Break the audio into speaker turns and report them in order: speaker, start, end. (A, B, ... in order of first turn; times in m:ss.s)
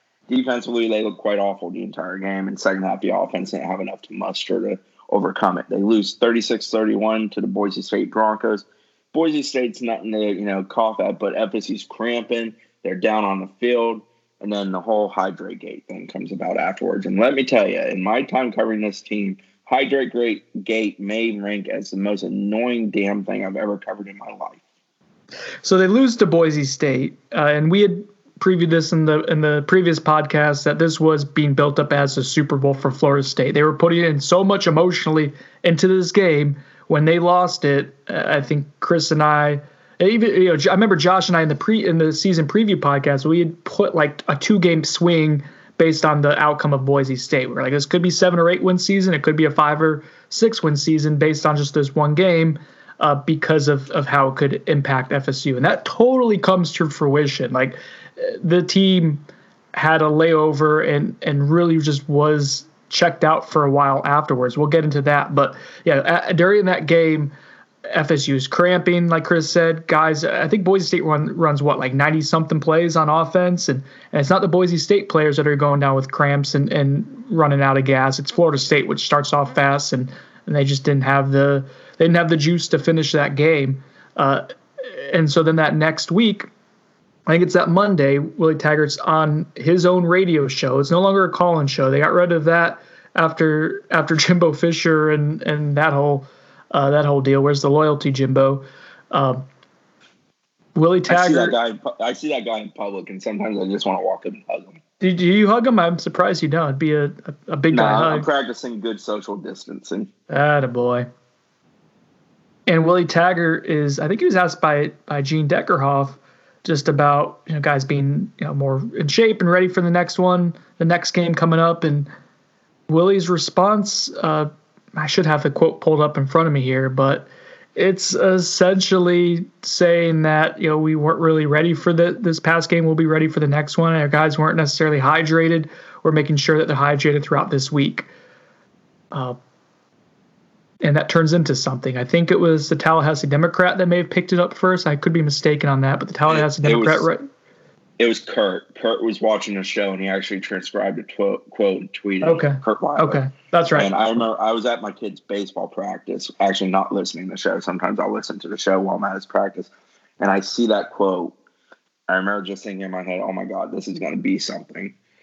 0:00.3-0:24.6 A
0:25.6-1:07.3 B
1:07.9-1:26.5 B
1:27.3-1:39.4 B
1:40.8-1:41.6 B
1:41.1-1:44.8 A
1:45.0-1:48.3 B
1:47.7-1:50.1 A
1:50.3-1:51.1 B
1:52.7-2:02.1 B
2:02.9-2:18.1 B
2:19.1-2:19.4 B
2:20.8-2:27.2 B
2:26.3-2:27.1 A
2:28.0-2:33.2 A
2:32.2-2:33.9 B
2:33.8-2:41.4 A
2:42.1-2:45.0 A